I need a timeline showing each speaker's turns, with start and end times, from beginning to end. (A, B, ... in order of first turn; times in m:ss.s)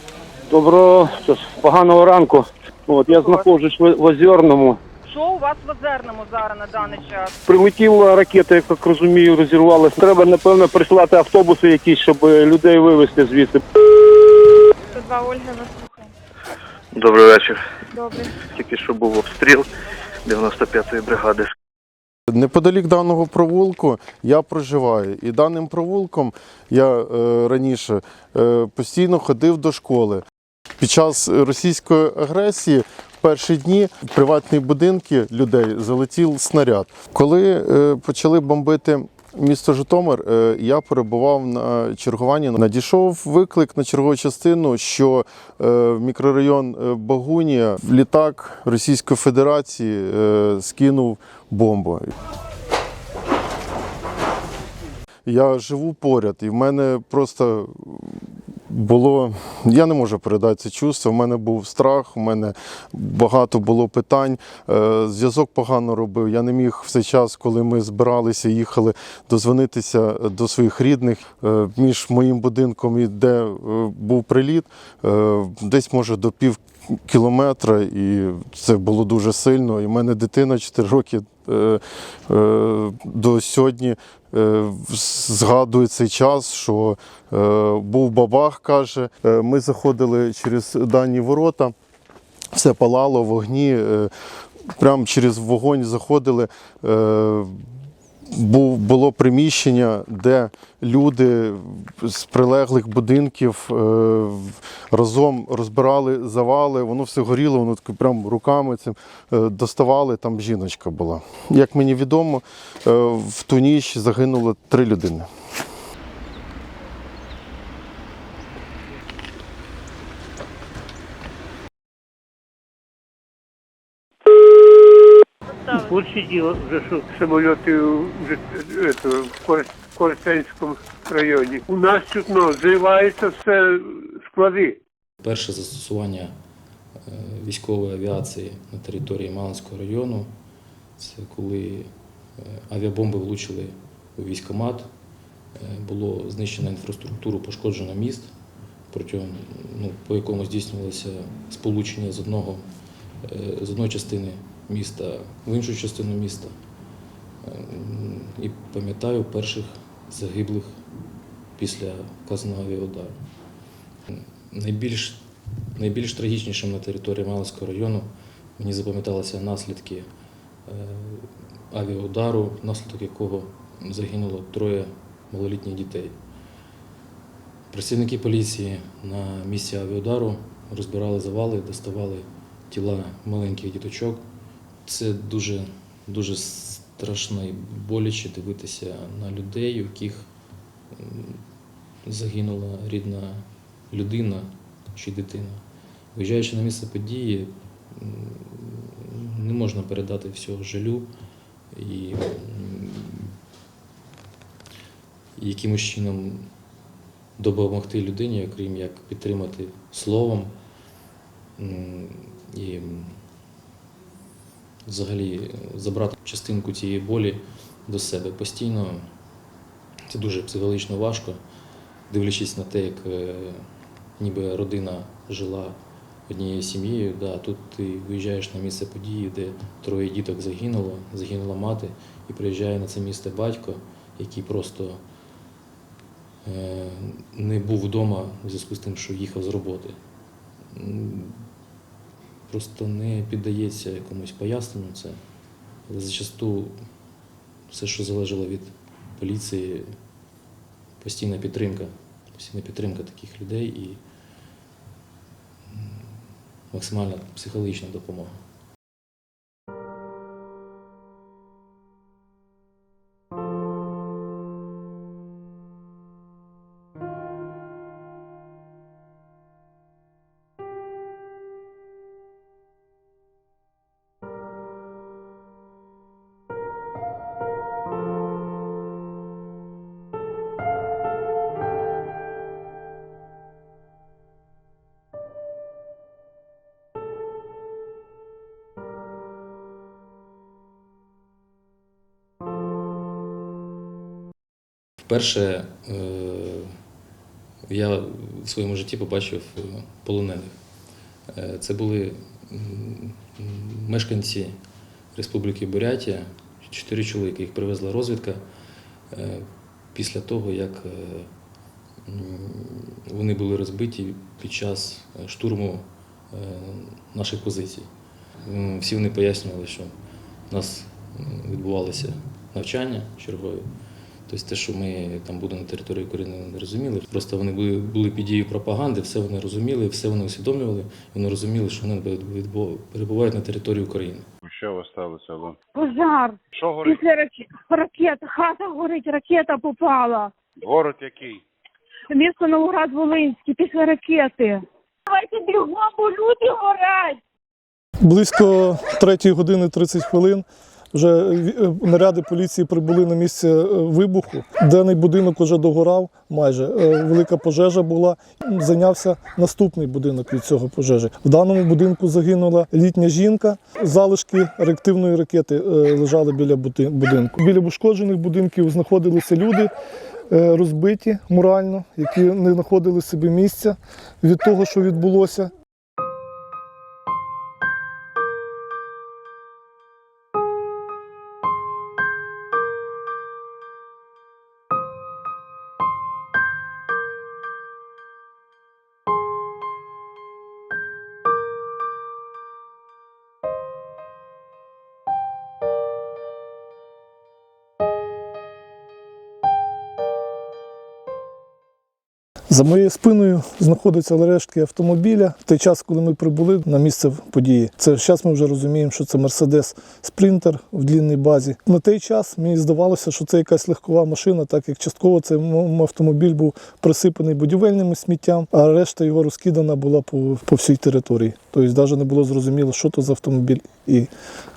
0:00.5-0:04.8 A
0:03.0-0:03.5 B
0:05.1-0:07.3 B
0:07.5-0:13.6 A
0:14.9-0:16.1 B
0:16.9-0:17.6 C
0:17.9-0:18.3 B
0:18.5-0:19.7 C
0:20.2-0:21.5 C
0:22.3-0:30.2 D
0:30.8-0:52.1 D
0:55.2-1:31.7 D
1:32.5-1:34.1 D
1:34.8-1:37.5 D
1:38.3-1:55.3 D
2:05.6-2:05.9 B
2:05.8-2:14.8 E
2:15.2-2:16.3 F
2:17.0-2:20.3 F
2:21.0-2:24.9 F
2:25.6-2:28.3 F
2:28.9-2:32.6 F
2:33.2-2:36.5 F
2:37.4-2:40.8 F
2:41.6-2:43.2 F
2:44.1-2:45.2 F
2:45.7-2:50.1 F
2:50.6-2:56.2 F
2:57.7-3:04.2 F
3:04.8-3:10.3 F
3:10.9-3:11.4 F
3:12.0-3:15.6 F
3:16.1-3:21.1 F
3:21.7-3:23.3 F
3:25.4-3:26.5 F
3:27.4-3:30.5 F
3:31.6-3:33.2 F
3:34.8-3:39.0 F
3:40.1-3:41.4 F
3:42.1-3:43.6 F
3:44.2-3:45.8 F
3:46.3-3:55.0 F
3:56.4-4:00.0 F
4:00.7-4:01.4 F
4:02.5-4:05.2 F
4:05.9-4:06.8 F
4:07.7-4:09.9 F
4:11.0-4:14.0 F
4:15.7-4:16.2 F
4:16.7-4:18.4 F
4:55.0-4:56.7 F
4:57.6-5:00.6 F
5:01.3-5:04.6 F
5:05.1-5:08.4 F
5:09.1-5:11.3 F
5:12.0-5:17.9 F
5:18.4-5:19.9 F
5:20.5-5:23.7 F
5:24.3-5:34.3 F
5:34.4-5:35.6 G
5:35.7-5:40.3 H
5:36.6-5:37.0 G
5:40.6-5:41.4 G
5:42.1-5:47.2 H
5:48.0-6:09.7 I
6:10.3-6:15.5 I
6:42.5-7:04.1 I